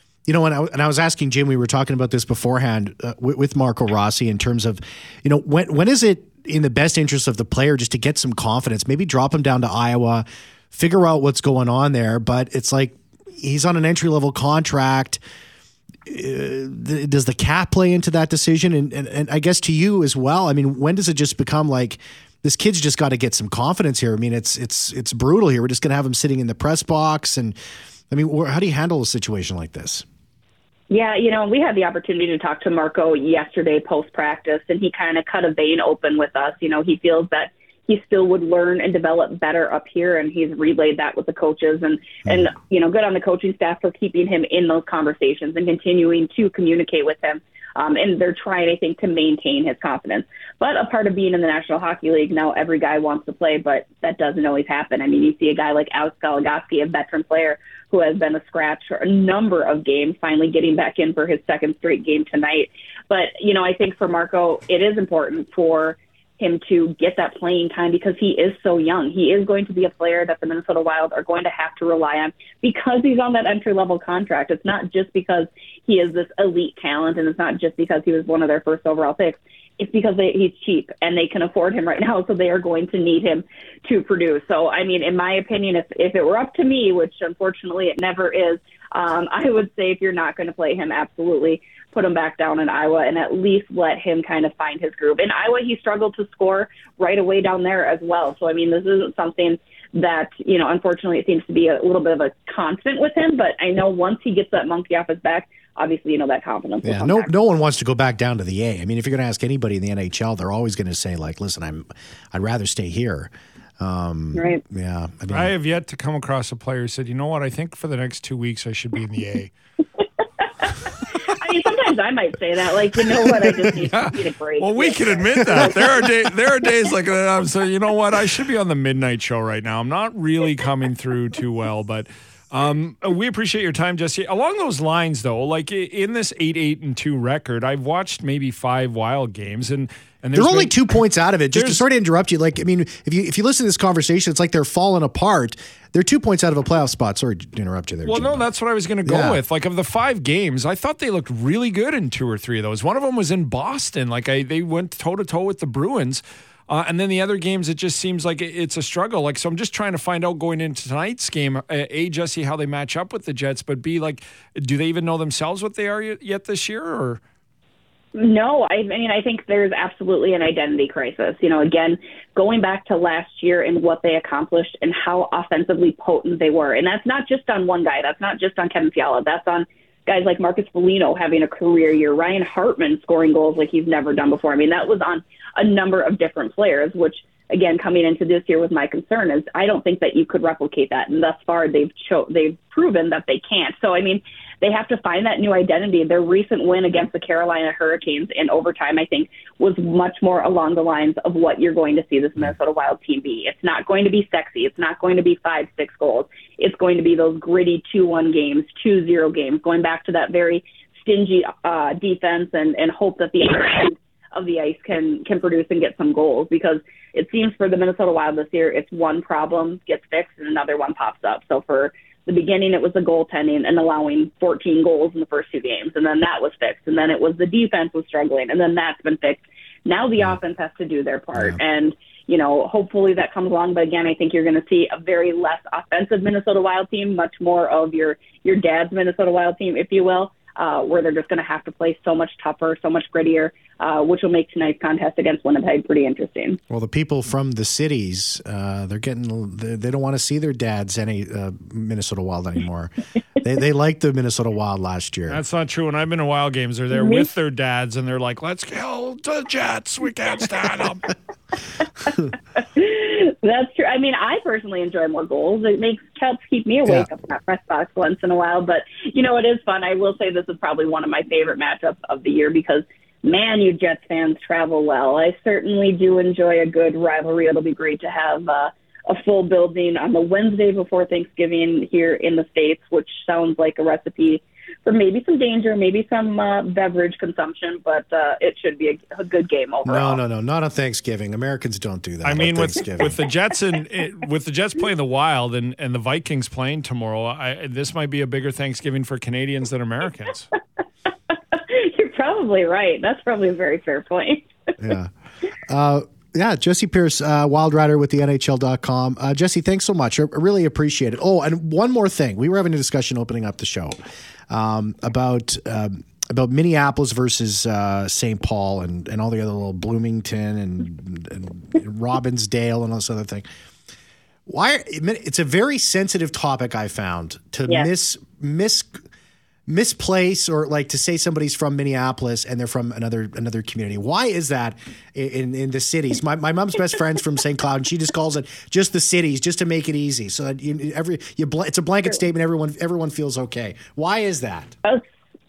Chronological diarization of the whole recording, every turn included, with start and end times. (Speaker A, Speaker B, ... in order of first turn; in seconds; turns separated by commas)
Speaker A: 0.2-15.2, Speaker A: 16.1-27.6, Speaker A: 28.1-30.0, Speaker B: 30.9-107.3, Speaker A: 106.8-115.5, Speaker B: 114.3-114.6, Speaker C: 115.3-119.5, Speaker B: 120.6-125.7, Speaker A: 123.4-123.7, Speaker C: 123.9-140.8, Speaker A: 140.3-148.4, Speaker C: 141.5-141.8, Speaker C: 148.1-167.2, Speaker A: 149.0-149.4, Speaker B: 168.1-246.6, Speaker A: 246.7-255.4, Speaker C: 255.3-261.1, Speaker B: 256.9-257.3, Speaker B: 262.6-290.2, Speaker A: 289.8-293.2, Speaker C: 292.2-300.5, Speaker B: 301.5-304.5, Speaker A: 304.8-305.1, Speaker A: 305.7-314.0, Speaker A: 314.5-323.5, Speaker A: 324.5-329.0, Speaker A: 329.7-344.7